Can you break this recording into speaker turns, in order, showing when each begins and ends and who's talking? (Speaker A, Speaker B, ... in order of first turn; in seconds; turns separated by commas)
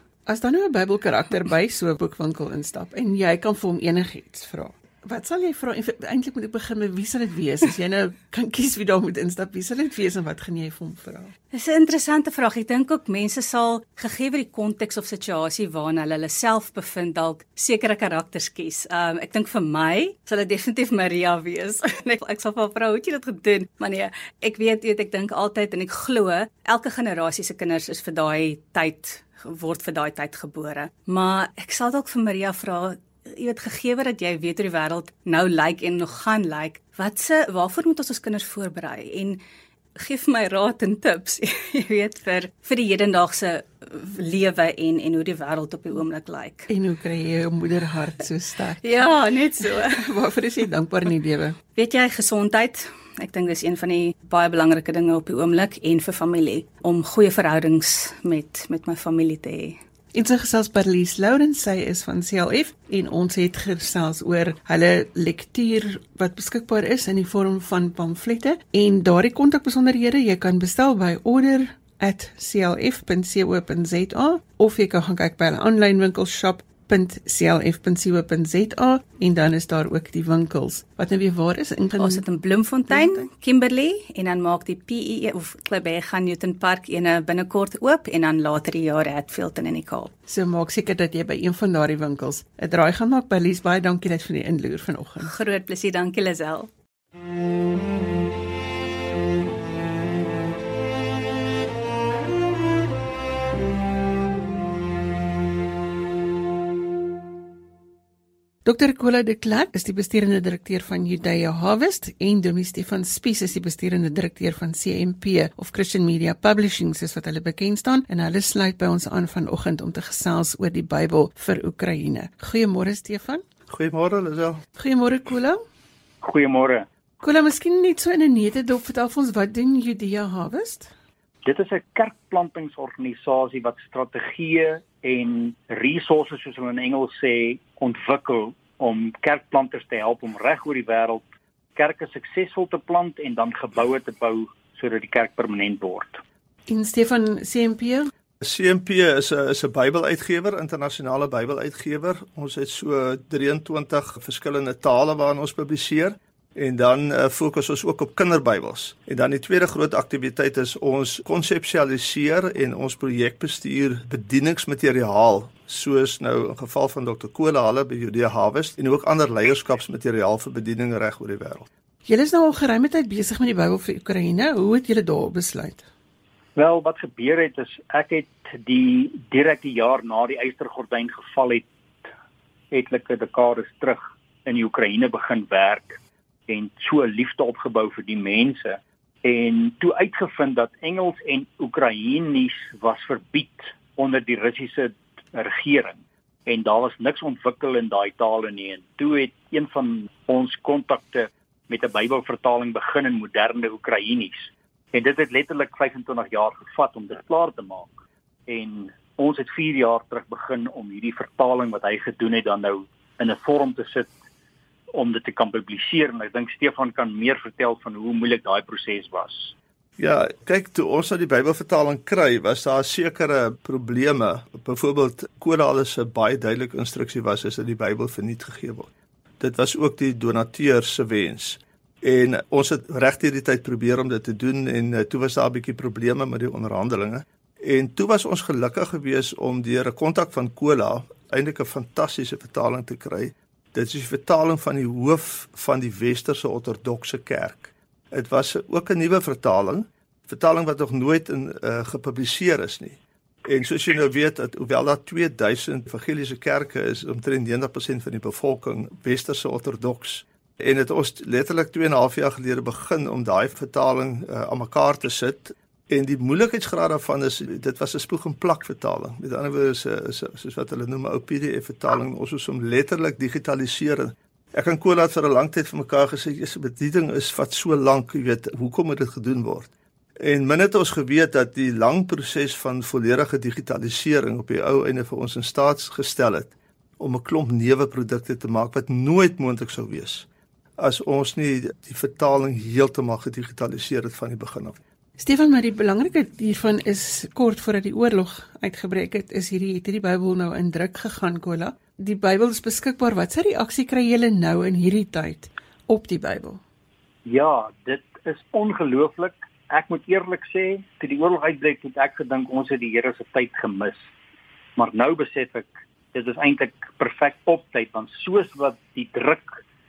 Speaker A: 0.3-11.3, Speaker B: 11.5-39.4, Speaker B: 40.0-46.7, Speaker A: 46.7-49.0, Speaker B: 48.8-50.0, Speaker A: 49.6-51.6, Speaker B: 51.8-59.8, Speaker A: 60.1-82.2, Speaker B: 82.0-90.1, Speaker A: 82.9-83.2, Speaker A: 90.3-95.3, Speaker B: 95.2-96.7, Speaker A: 108.6-123.4, Speaker C: 123.7-124.6, Speaker A: 124.8-125.6, Speaker D: 126.2-126.8, Speaker A: 127.2-130.9, Speaker D: 131.4-141.2, Speaker D: 141.8-146.2, Speaker A: 146.7-148.1, Speaker C: 148.4-171.7, Speaker A: 172.1-175.8, Speaker D: 176.6-182.1, Speaker D: 182.7-208.0, Speaker D: 208.5-214.1, Speaker D: 214.9-219.5, Speaker C: 220.0-228.9, Speaker C: 229.4-290.3, Speaker C: 290.8-294.8, Speaker A: 295.2-306.6, Speaker D: 307.2-314.1, Speaker D: 314.8-319.6